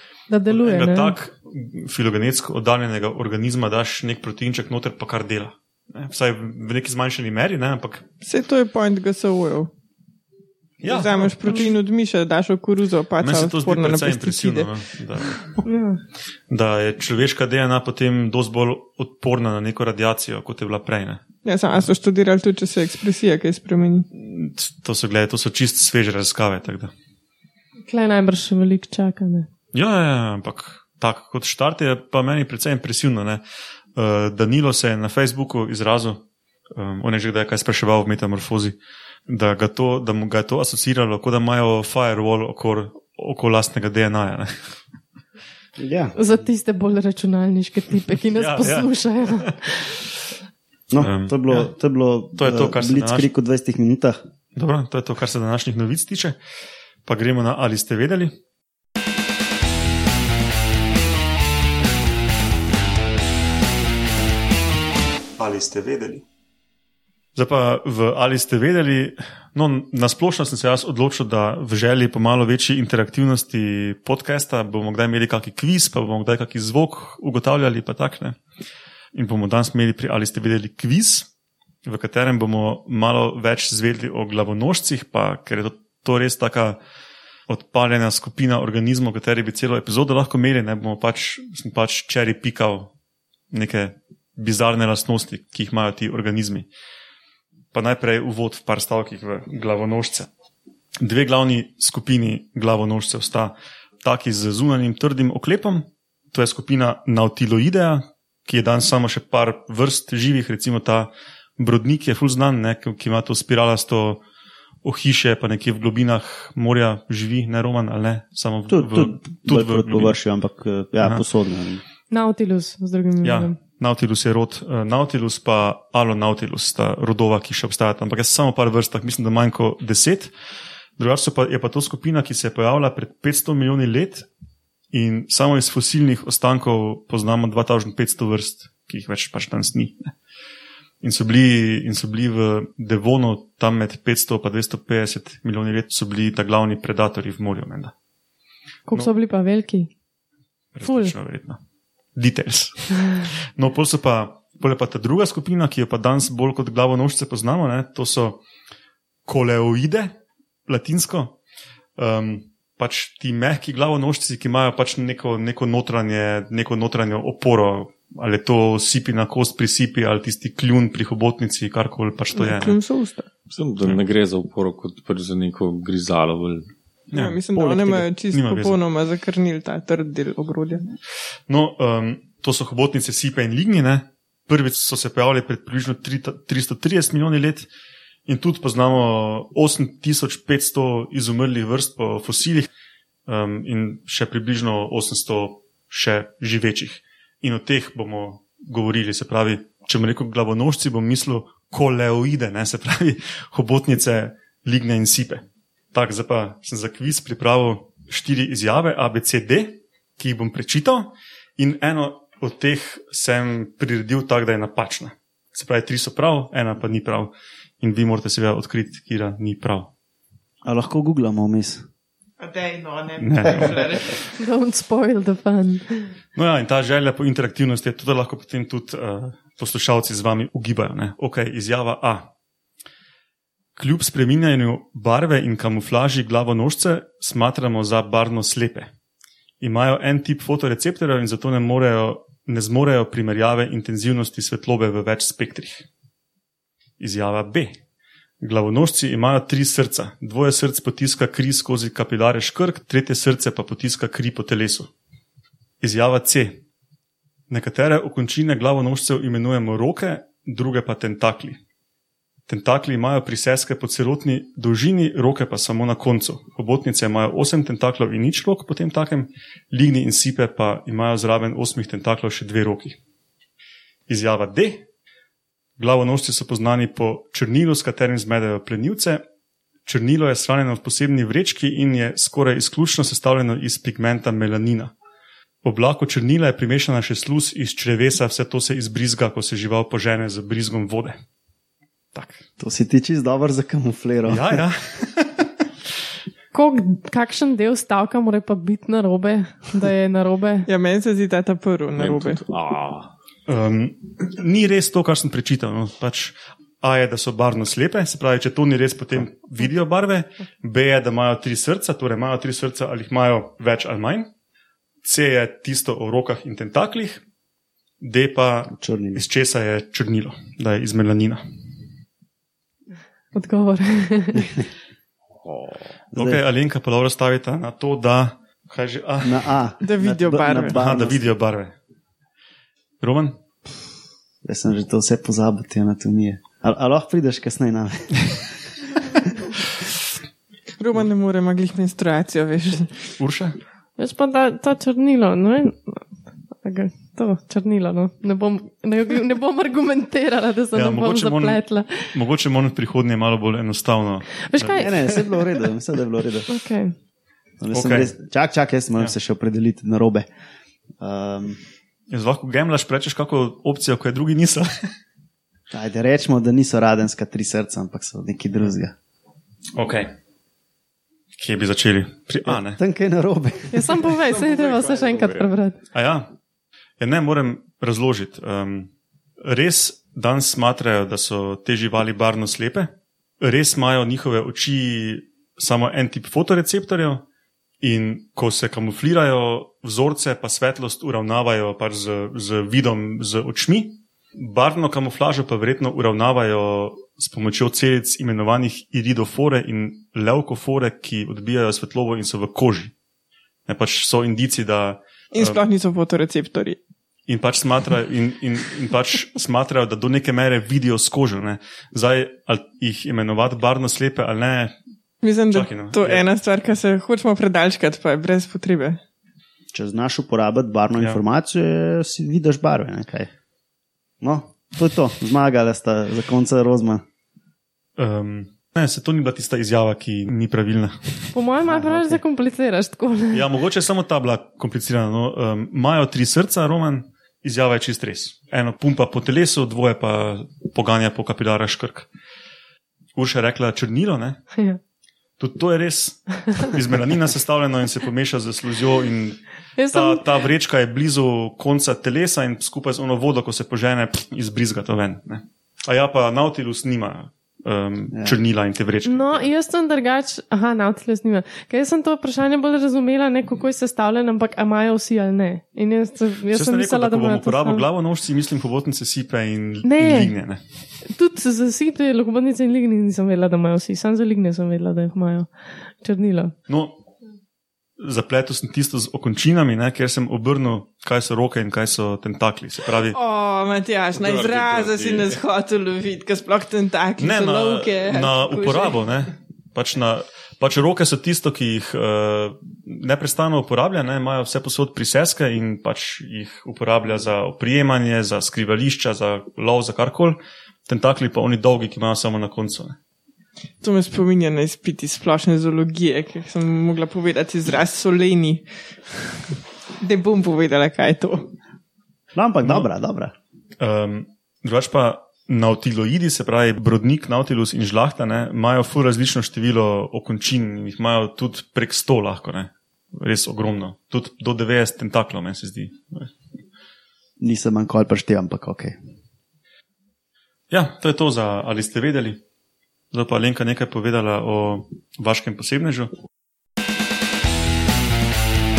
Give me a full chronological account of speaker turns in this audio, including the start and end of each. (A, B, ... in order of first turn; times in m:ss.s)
0:00.3-0:01.1 A
0:00.5-0:08.1 B
0:08.2-0:09.7 C
0:10.8-0:11.4 B
0:10.8-0:14.7 C
0:13.2-0:15.6 B
0:15.6-0:16.0 A
0:16.5-0:21.2 B
0:21.4-0:24.1 C
0:24.1-0:26.9 B
0:27.8-0:29.5 A
0:29.7-0:33.4 B
0:34.0-0:36.2 B
0:36.7-0:38.8 B
0:39.3-0:44.8 B
0:45.8-0:46.2 D
0:46.2-0:49.9 A
0:48.3-0:49.5 B
0:50.9-0:54.2 D
0:51.0-0:51.7 B
0:52.4-0:53.3 B
0:54.5-0:56.4 B
0:57.0-0:58.3 B
1:05.4-1:06.2 B
1:07.3-1:18.4 B
1:19.1-1:21.3 B
1:21.8-1:26.8 B
1:27.5-1:32.9 B
1:33.5-1:36.7 B
1:37.7-1:40.3 B
1:41.0-1:54.2 B
1:54.8-2:00.2 B
1:58.7-2:01.8 D
2:02.1-2:03.5 A
2:03.2-2:10.3 B
2:11.0-2:14.2 B
2:14.9-2:20.1 B
2:21.0-2:27.9 B
2:28.9-2:29.9 A
2:30.7-2:31.6 B
2:30.8-2:31.1 A
2:32.2-2:38.4 B
2:39.2-2:40.1 B
2:40.7-2:41.4 B
2:42.0-2:52.8 B
2:52.3-2:53.3 C
2:53.5-2:56.6 E
2:57.1-2:58.8 B
2:57.1-3:00.8 C
3:01.5-3:07.7 B
3:08.2-3:12.7 B
3:13.3-3:39.9 B
3:40.6-3:41.8 D
3:42.4-3:44.2 C
3:43.2-3:44.0 B
3:44.4-3:46.1 A
3:46.4-3:52.3 B
3:53.8-3:58.9 B
3:59.6-4:05.8 B
4:07.0-4:07.7 B
4:08.4-4:14.9 B
4:15.8-4:16.6 B
4:17.5-4:21.6 B
4:22.5-4:33.0 B
4:34.1-4:34.8 B
4:35.8-4:39.2 B
4:39.8-4:44.9 B
4:45.6-4:51.2 B
4:52.1-4:52.4 B
4:52.6-4:54.6 D
4:54.3-4:55.5 B
4:56.5-5:00.7 A
5:00.7-5:02.4 C
5:02.0-5:03.1 E
5:03.5-5:14.3 B
5:15.0-5:17.2 B
5:18.0-5:21.4 B
5:18.7-5:19.2 D
5:23.3-5:24.5 A
5:24.3-5:24.6 D
5:25.4-5:25.8 E
5:26.1-5:26.4 D
5:26.2-5:29.6 B
5:29.2-5:31.3 D
5:29.8-5:30.8 C
5:30.7-5:31.7 B
5:33.0-5:33.4 B
5:34.4-5:38.4 D
5:40.8-5:43.1 C
5:43.2-5:43.6 B
5:44.0-5:46.0 A
5:46.6-5:52.1 A
5:50.7-5:54.9 B
5:54.4-5:55.5 A
5:54.8-5:56.6 D
5:56.5-5:56.9 A
5:57.6-6:00.2 D
5:57.7-5:58.1 B
6:01.0-6:01.6 D
6:02.1-6:04.9 B
6:05.7-6:08.9 D
6:09.7-6:10.1 B
6:11.3-6:12.8 B
6:12.4-6:14.0 D
6:13.7-6:15.8 A
6:14.3-6:15.5 E
6:15.9-6:16.3 B
6:17.0-6:18.9 B
6:19.4-6:22.9 B
6:23.4-6:27.2 B
6:27.8-6:42.9 B
6:43.7-6:45.6 B
6:45.3-6:46.8 C
6:47.3-6:54.7 B
6:55.2-6:59.0 C
6:55.5-6:56.2 B
6:59.7-7:03.3 D
7:04.2-7:07.0 D
7:08.0-7:11.4 B
7:11.3-7:13.4 A
7:11.6-7:12.2 D
7:13.3-7:22.1 B
7:23.2-7:24.4 B
7:25.4-7:39.5 B
7:29.8-7:30.2 A
7:39.0-7:47.8 A
7:46.5-7:50.9 B
7:49.8-7:50.3 A
7:51.0-7:56.5 A
7:56.7-7:57.0 B
7:58.0-8:03.2 B
8:03.1-8:09.0 C
8:04.1-8:05.4 E
8:07.2-8:23.0 B
8:23.8-8:31.5 C
8:32.3-8:33.3 D
8:33.8-8:46.3 B
8:47.4-8:49.0 D
8:50.7-8:52.4 B
8:53.1-8:56.1 B